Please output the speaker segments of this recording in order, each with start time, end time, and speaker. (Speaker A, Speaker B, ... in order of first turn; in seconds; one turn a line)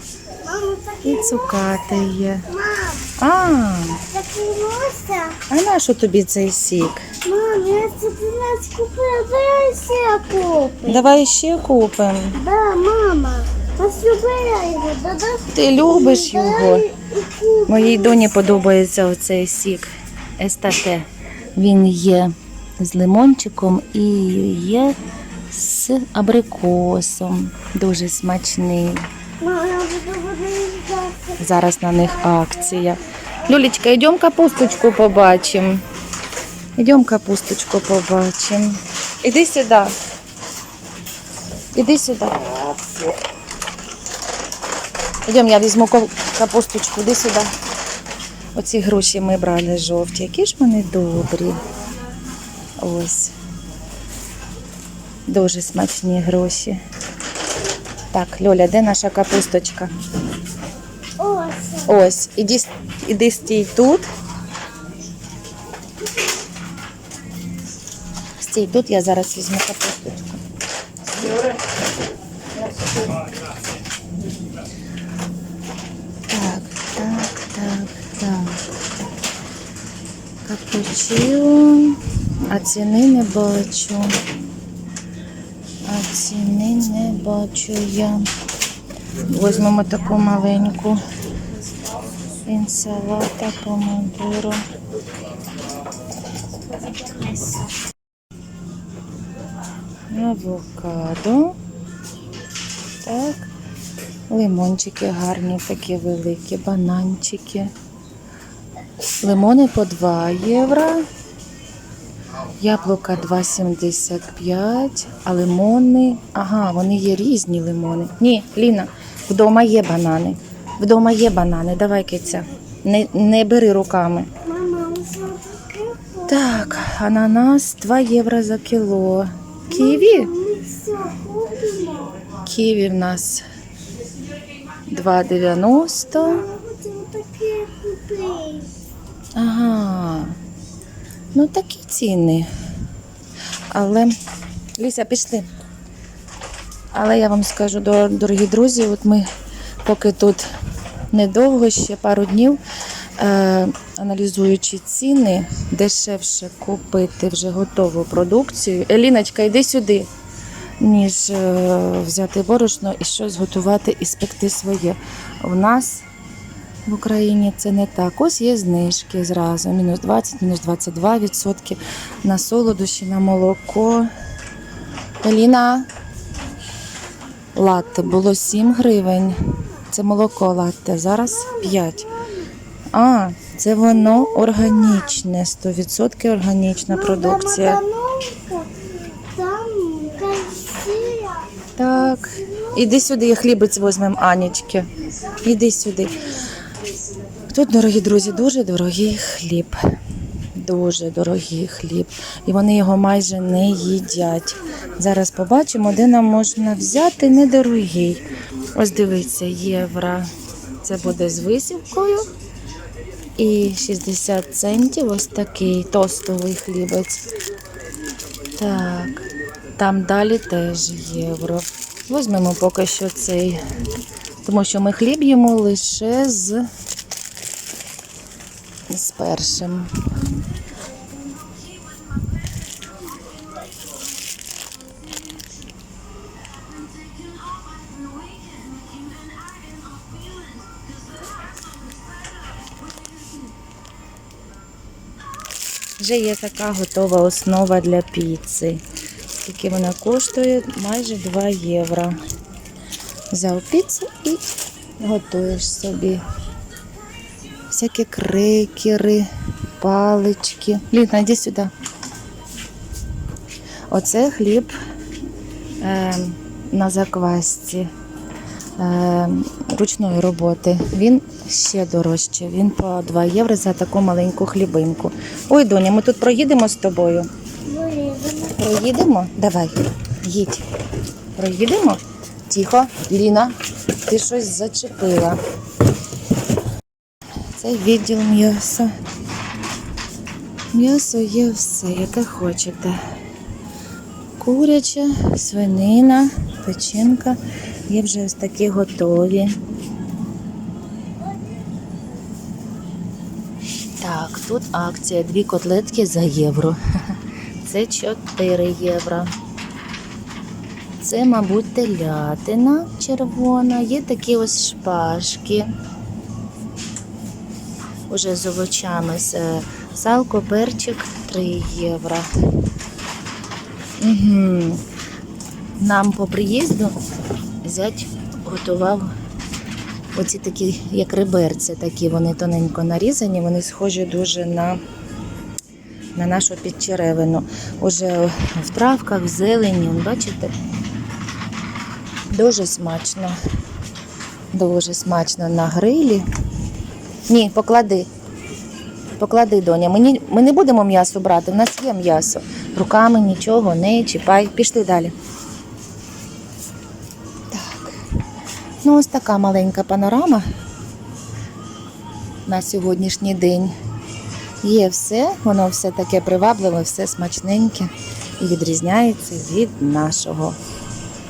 Speaker A: 0.3-1.8
Speaker B: 1.0-2.5
Speaker A: 2.5-3.0
Speaker B: 3.2-4.0
Speaker A: 4.1-5.4
Speaker B: 5.5-7.1
Speaker A: 7.2-11.1
Speaker B: 10.8-12.4
Speaker A: 12.3-18.4
Speaker B: 15.5-16.9
Speaker B: 17.7-25.0
Speaker B: 25.5-29.1
Speaker A: 29.4-31.4
Speaker B: 31.4-35.9
Speaker B: 36.8-40.0
Speaker B: 41.7-43.0
Speaker B: 45.3-47.5
Speaker B: 48.5-51.7
Speaker B: 52.8-53.4
Speaker B: 55.3-56.8
Speaker B: 58.1-59.9
Speaker A: 61.2-61.9
Speaker B: 61.9-64.1
Speaker B: 68.4-70.4
Speaker B: 76.3-78.6
Speaker B: 80.5-84.2
Speaker B: 85.9-88.3
Speaker B: 89.2-91.0
Speaker B: 92.5-94.6
Speaker B: 100.1-101.6
Speaker B: 103.0-103.5
Speaker B: 104.3-107.7
Speaker B: 109.2-111.0
Speaker B: 112.6-124.3
Speaker A: 124.4-126.5
Speaker B: 126.3-130.3
Speaker A: 129.7-132.3
Speaker B: 132.3-133.4
Speaker B: 134.9-136.5
Speaker A: 136.2-138.7
Speaker B: 139.3-140.4
Speaker B: 141.3-142.5
Speaker B: 143.7-144.2
Speaker B: 144.8-145.5
Speaker B: 146.9-149.3
Speaker B: 149.8-150.5
Speaker B: 151.1-152.6
Speaker B: 153.2-160.1
Speaker B: 160.8-166.1
Speaker B: 166.9-174.1
Speaker B: 175.2-175.9
Speaker B: 177.6-182.1
Speaker A: 181.4-182.5
Speaker B: 182.9-187.8
Speaker A: 186.9-191.5
Speaker B: 191.8-196.4
Speaker B: 197.5-199.8
Speaker B: 200.4-212.3
Speaker B: 213.4-217.3
Speaker B: 218.6-223.6
Speaker B: 224.4-226.7
Speaker B: 228.9-230.3
Speaker A: 237.1-240.8
Speaker B: 246.0-248.8
Speaker B: 249.4-252.2
Speaker B: 253.3-254.5
Speaker B: 255.0-256.3
Speaker B: 257.7-261.7
Speaker B: 263.9-264.8
Speaker B: 265.8-267.9
Speaker B: 268.8-277.3
Speaker A: 277.7-278.6
Speaker B: 278.5-280.7
Speaker B: 281.4-285.4
Speaker B: 287.5-288.9
Speaker B: 290.7-293.0
Speaker B: 294.4-299.6
Speaker B: 304.0-309.4
Speaker B: 311.0-315.7
Speaker B: 318.1-322.3
Speaker B: 324.0-324.8
Speaker B: 325.8-327.0
Speaker B: 327.6-329.1
Speaker B: 330.1-334.8
Speaker B: 336.1-340.6
Speaker B: 342.3-343.4
Speaker B: 344.5-346.3
Speaker B: 347.3-348.1
Speaker B: 349.2-355.1
Speaker B: 357.5-358.1
Speaker B: 358.8-360.5
Speaker B: 362.5-363.8
Speaker B: 364.6-370.6